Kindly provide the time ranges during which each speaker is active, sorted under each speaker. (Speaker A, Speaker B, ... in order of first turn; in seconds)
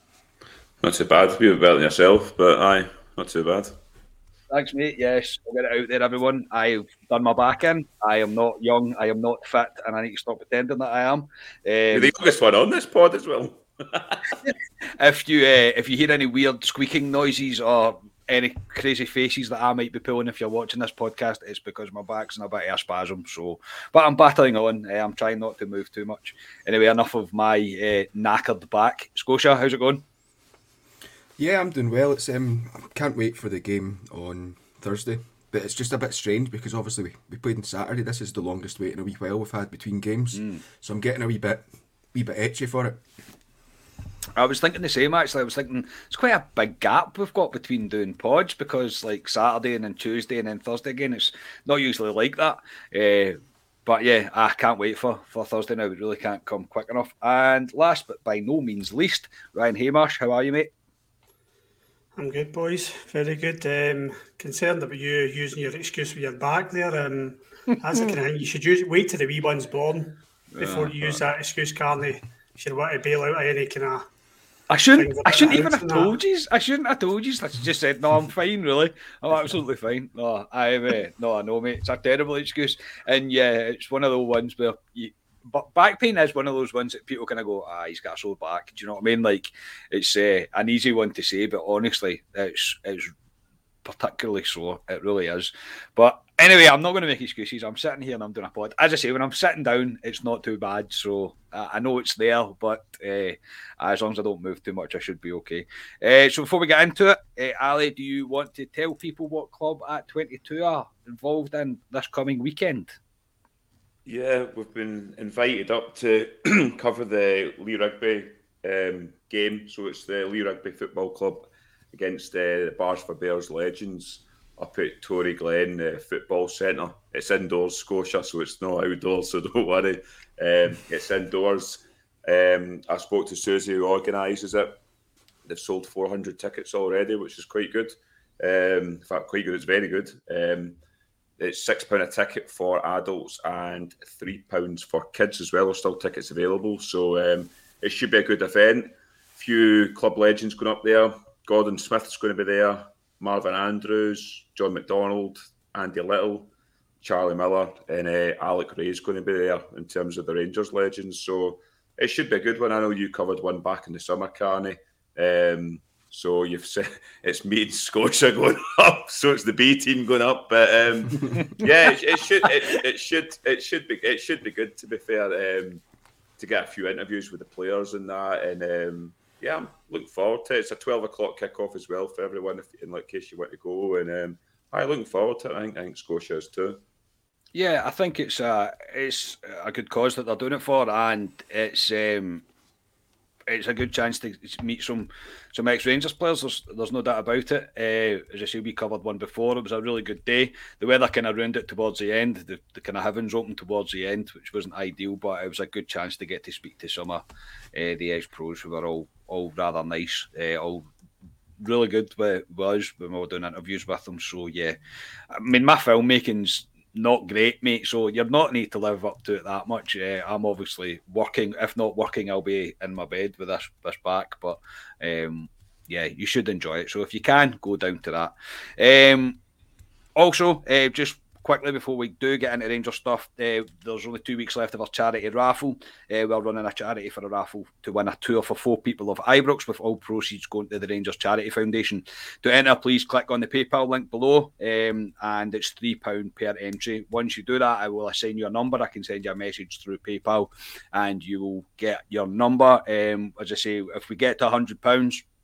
Speaker A: 0.8-3.8, 11.9-14.4, 114.1-134.8, 135.5-140.8, 141.4-156.5, 157.0-175.8, 176.4-186.8
Speaker B: 4.5-12.1, 14.4-30.1, 40.4-40.6, 44.4-60.7, 70.5-71.2, 74.7-93.1, 93.8-113.0, 187.5-192.4, 193.5-210.9, 211.6-214.8, 215.3-229.4, 230.2-255.2
Speaker C: 31.4-43.0
Speaker D: 62.2-74.1, 75.0-76.2